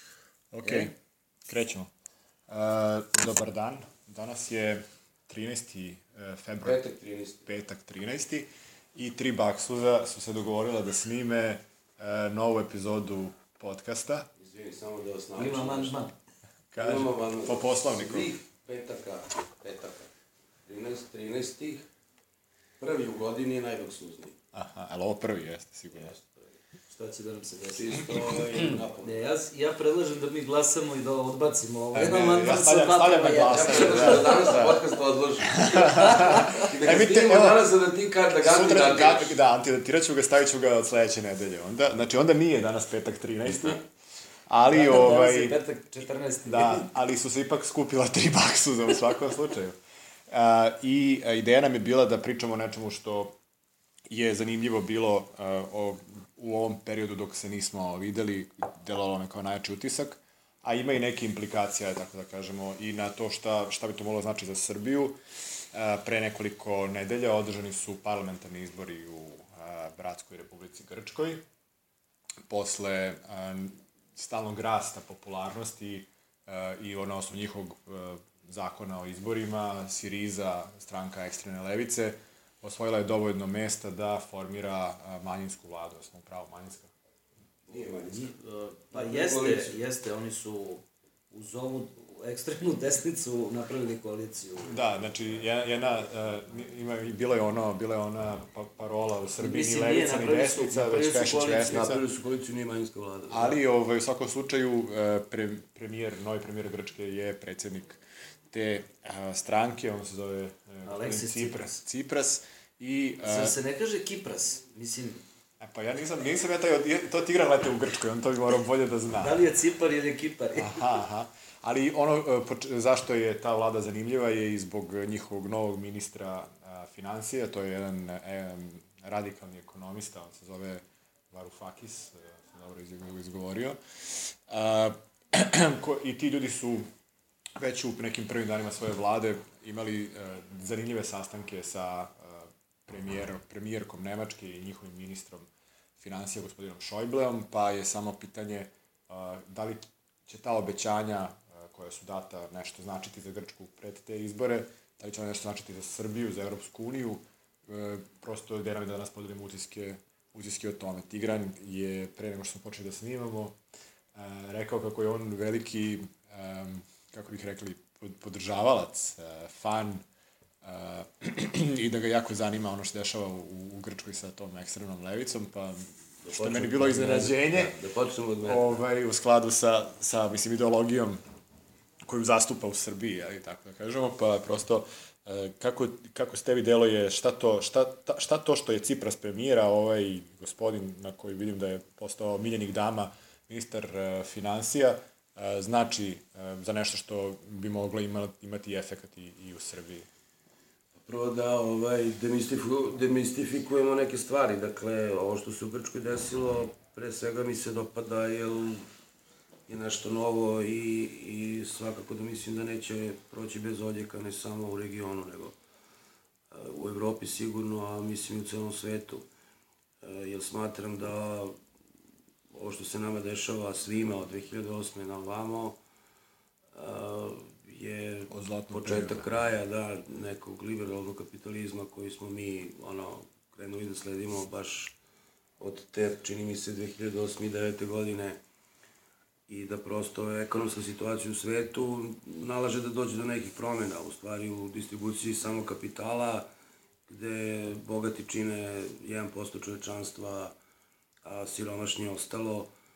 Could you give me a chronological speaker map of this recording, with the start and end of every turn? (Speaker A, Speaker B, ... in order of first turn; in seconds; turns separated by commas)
Speaker A: 0.5-0.9, Speaker B: 0.7-0.9, Speaker A: 1.5-1.9, Speaker A: 2.5-6.8, Speaker C: 6.6-7.4, Speaker A: 7.4-14.3, Speaker C: 14.4-16.0, Speaker B: 15.4-16.1, Speaker A: 16.7-18.3, Speaker C: 16.8-20.1, Speaker C: 20.7-21.9, Speaker C: 22.8-24.4, Speaker A: 24.5-26.1, Speaker C: 25.9-26.5, Speaker B: 26.9-34.8, Speaker C: 27.7-29.3, Speaker A: 31.9-34.7, Speaker C: 33.5-39.4, Speaker A: 35.5-37.7, Speaker B: 35.9-36.7, Speaker A: 38.4-43.8, Speaker A: 44.5-45.6, Speaker B: 44.6-46.9, Speaker A: 46.5-49.8, Speaker A: 50.3-53.4, Speaker A: 54.1-65.2, Speaker A: 65.7-71.4, Speaker A: 72.5-86.9, Speaker C: 87.7-88.4, Speaker B: 87.8-95.2, Speaker C: 88.9-89.8, Speaker A: 94.6-102.0, Speaker B: 99.4-101.8, Speaker C: 101.6-103.6, Speaker A: 103.3-113.6, Speaker B: 110.8-111.8, Speaker B: 113.2-115.2, Speaker A: 115.6-119.4, Speaker B: 119.2-121.0, Speaker A: 120.5-136.9, Speaker A: 137.6-145.5, Speaker A: 146.0-163.6, Speaker A: 164.2-170.0, Speaker A: 170.6-177.8, Speaker C: 176.2-178.7, Speaker A: 178.4-181.2, Speaker A: 182.1-200.1, Speaker C: 201.1-208.9, Speaker C: 209.7-215.6, Speaker C: 216.5-219.3, Speaker C: 220.0-221.6, Speaker C: 222.5-225.8, Speaker C: 226.7-234.9, Speaker A: 228.3-229.3, Speaker C: 235.6-238.4, Speaker C: 239.5-246.5, Speaker C: 247.1-250.6, Speaker C: 251.2-252.7